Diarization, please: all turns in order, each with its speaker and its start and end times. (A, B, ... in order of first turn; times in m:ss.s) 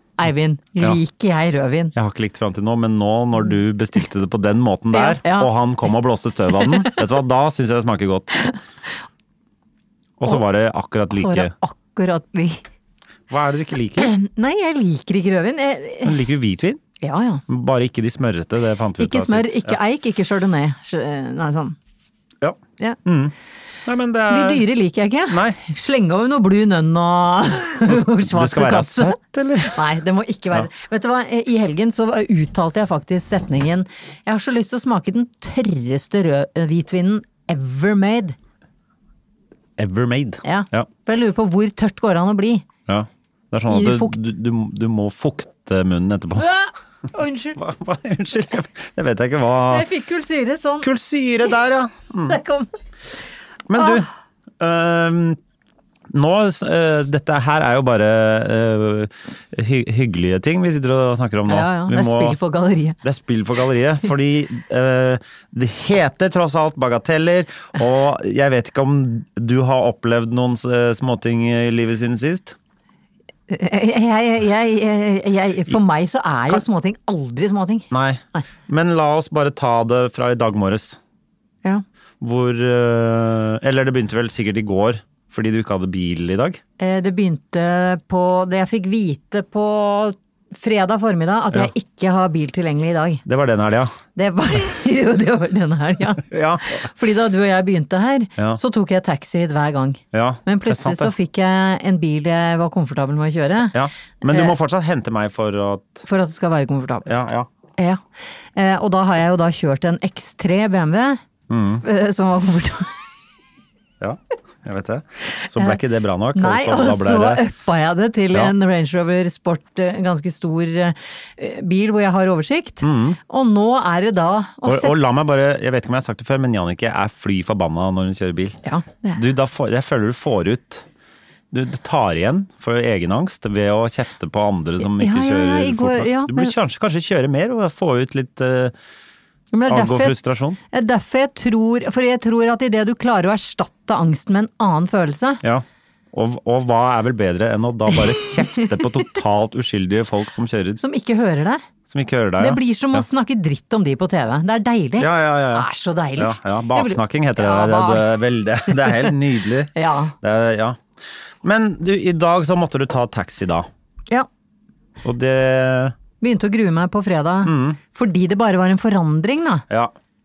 0:00.2-0:01.9 A
0:02.0-0:08.3 B
0:04.9-0:05.5 A
0:06.7-0:06.9 A
0:10.2-0:11.5 B
0:11.1-0:12.6 A
0:13.3-0:14.1 B
0:14.0-0:16.2 A
0:16.0-0:16.8 B
0:17.0-0:17.4 A
0:17.5-0:19.8 B
0:19.0-0:21.8 A
0:22.4-0:23.3 B
0:23.9-0:24.6 B
0:24.3-0:38.4 A
0:25.3-0:25.6 B
0:27.8-0:29.8 B
0:39.8-0:40.9 B
0:40.4-0:42.6 A
0:42.9-0:46.5 B
0:43.7-0:44.2 A
0:46.4-0:47.6 A
0:47.6-0:49.9 B
0:49.7-0:50.9 A
0:50.8-0:52.4 B
0:52.3-0:52.7 A
0:53.7-0:54.1 B
0:53.8-0:54.0 A
0:54.6-0:55.4 B
0:56.1-1:02.4 B
1:01.5-1:03.0 A
1:03.0-1:12.6 B
1:13.5-1:18.4 A
1:17.9-1:21.0 B
1:22.2-1:26.6 B
1:26.8-1:33.2 A
1:33.2-1:34.0 B
1:34.2-1:43.8 A
1:36.2-1:36.8 B
1:40.1-1:41.1 B
1:43.7-1:46.0 B
1:46.0-1:47.1 A
1:47.1-1:47.5 B
1:48.6-1:51.2 A
1:51.5-1:51.8 B
1:51.8-1:52.9 A
1:54.0-1:57.4 B
1:56.4-2:05.0 A
2:02.8-2:03.2 B
2:04.6-2:08.6 B
2:08.6-2:09.2 A
2:09.2-2:10.9 B
2:11.5-2:18.7 B
2:14.8-2:16.5 A
2:19.5-2:20.2 A
2:19.7-2:20.6 B
2:20.7-2:25.4 A
2:25.4-2:30.8 B
2:28.1-2:29.1 A
2:30.8-2:31.6 A
2:31.9-2:33.0 B
2:32.4-2:39.1 A
2:35.0-2:40.8 B
2:39.8-2:40.2 A
2:41.4-2:43.7 B
2:45.0-2:46.0 B
2:46.2-2:49.6 A
2:47.4-2:47.8 B